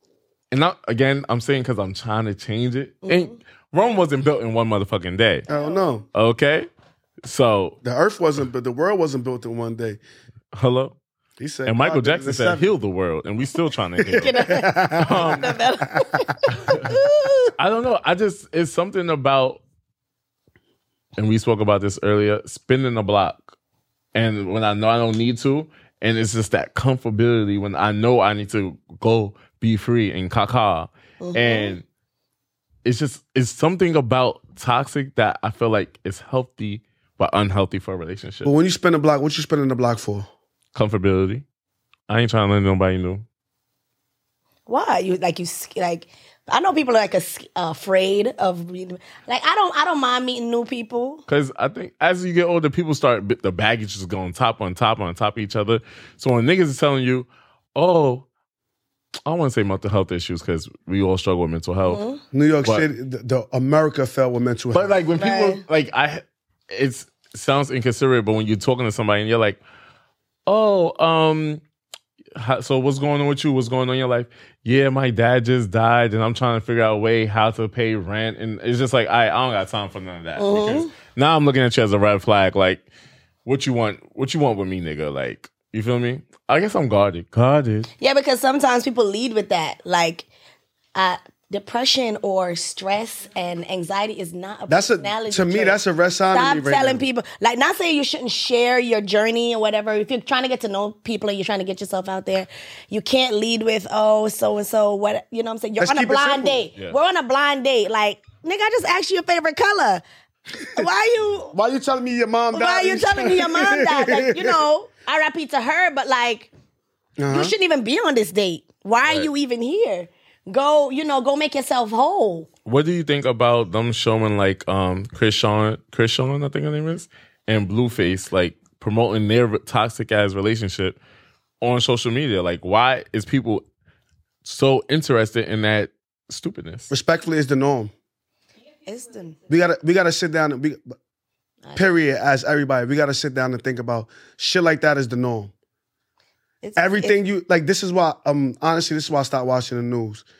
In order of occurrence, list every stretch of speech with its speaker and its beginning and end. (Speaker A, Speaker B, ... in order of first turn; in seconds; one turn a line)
Speaker A: 0.5-5.5
Speaker B: 3.0-3.3
Speaker C: 5.5-6.0
Speaker A: 6.1-6.7
Speaker A: 7.2-7.8
Speaker C: 7.8-10.0
Speaker A: 10.5-10.9
Speaker C: 11.4-12.7
Speaker A: 11.7-15.6
Speaker C: 14.0-16.1
Speaker B: 14.2-17.5
Speaker A: 16.5-16.9
Speaker A: 17.6-19.6
Speaker A: 21.2-23.5
Speaker A: 24.1-31.8
Speaker B: 31.2-31.7
Speaker A: 32.8-38.5
Speaker C: 38.4-40.3
Speaker A: 40.7-41.4
Speaker A: 42.1-43.2
Speaker B: 44.7-51.2
Speaker A: 51.3-58.3
Speaker A: 59.2-62.0
Speaker B: 61.9-62.2
Speaker C: 62.3-64.9
Speaker A: 64.7-69.6
Speaker B: 65.2-65.6
Speaker A: 70.5-71.6
Speaker A: 72.3-82.8
Speaker B: 80.4-80.9
Speaker A: 83.4-87.9
Speaker B: 88.0-90.3
Speaker B: 90.9-95.8
Speaker C: 94.7-97.0
Speaker B: 96.3-110.0
Speaker C: 105.8-106.6
Speaker B: 110.7-111.5
Speaker C: 111.5-114.6
Speaker B: 112.5-116.5
Speaker C: 117.2-117.5
Speaker B: 117.3-122.5
Speaker A: 122.7-131.0
Speaker A: 131.6-133.6
Speaker A: 134.4-136.9
Speaker C: 136.9-137.9
Speaker B: 138.8-139.4
Speaker C: 139.5-140.9
Speaker B: 141.6-141.9
Speaker C: 141.7-145.5
Speaker B: 146.6-147.2
Speaker C: 146.8-150.2